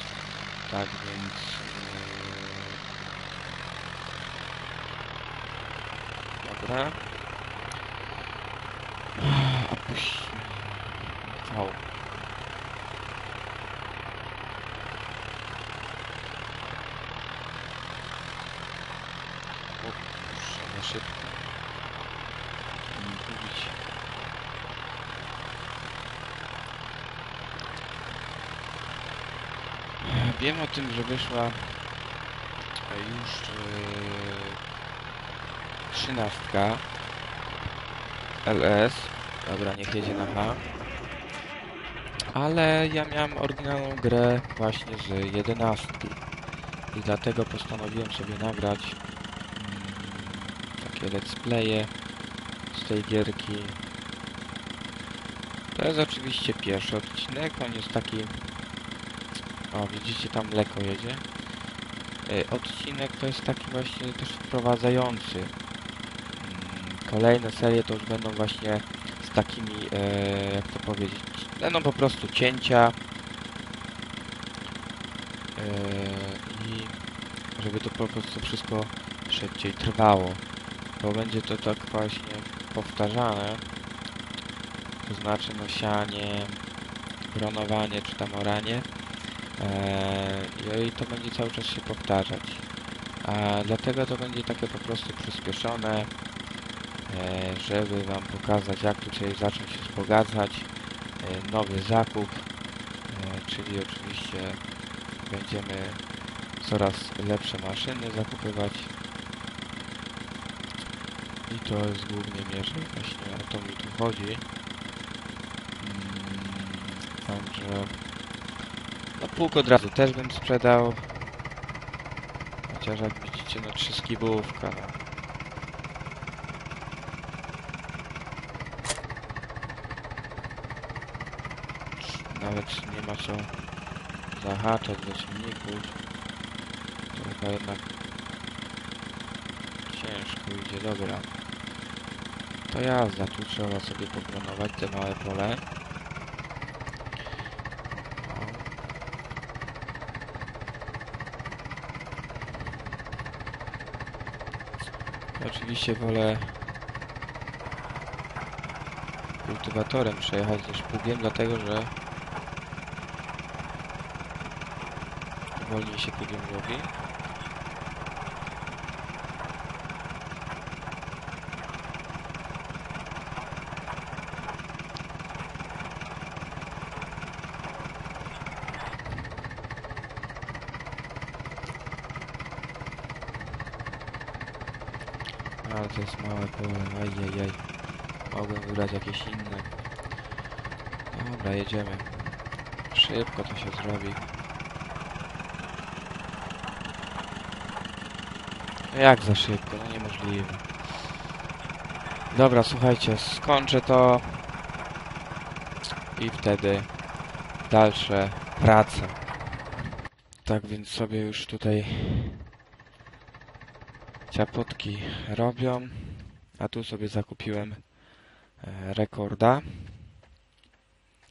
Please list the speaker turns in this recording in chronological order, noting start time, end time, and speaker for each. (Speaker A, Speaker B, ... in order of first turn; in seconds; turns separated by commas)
Speaker A: 0.6-2.8, Speaker A: 6.4-7.2, Speaker A: 9.1-11.9, Speaker A: 19.8-21.6, Speaker A: 22.9-23.8, Speaker A: 30.0-31.9, Speaker A: 32.9-34.6, Speaker A: 35.9-36.9, Speaker A: 38.4-40.7, Speaker A: 42.3-46.3, Speaker A: 46.9-49.0, Speaker A: 49.5-52.1, Speaker A: 52.6-53.9, Speaker A: 55.7-58.7, Speaker A: 59.7-61.4, Speaker A: 62.2-65.5, Speaker A: 66.3-73.0, Speaker A: 75.5-83.8, Speaker A: 85.0-86.7, Speaker A: 87.2-96.3, Speaker A: 97.0-108.9, Speaker A: 111.5-114.5, Speaker A: 115.8-118.2, Speaker A: 119.1-121.5, Speaker A: 122.6-125.0, Speaker A: 131.9-136.0, Speaker A: 137.1-137.8, Speaker A: 139.8-141.3, Speaker A: 142.7-145.7, Speaker A: 148.2-148.7, Speaker A: 155.3-156.7, Speaker A: 159.4-161.9, Speaker A: 165.5-166.9, Speaker A: 185.6-189.9, Speaker A: 191.1-194.4, Speaker A: 198.9-201.2, Speaker A: 202.3-204.6, Speaker A: 206.1-209.4, Speaker A: 210.4-212.5, Speaker A: 214.3-220.1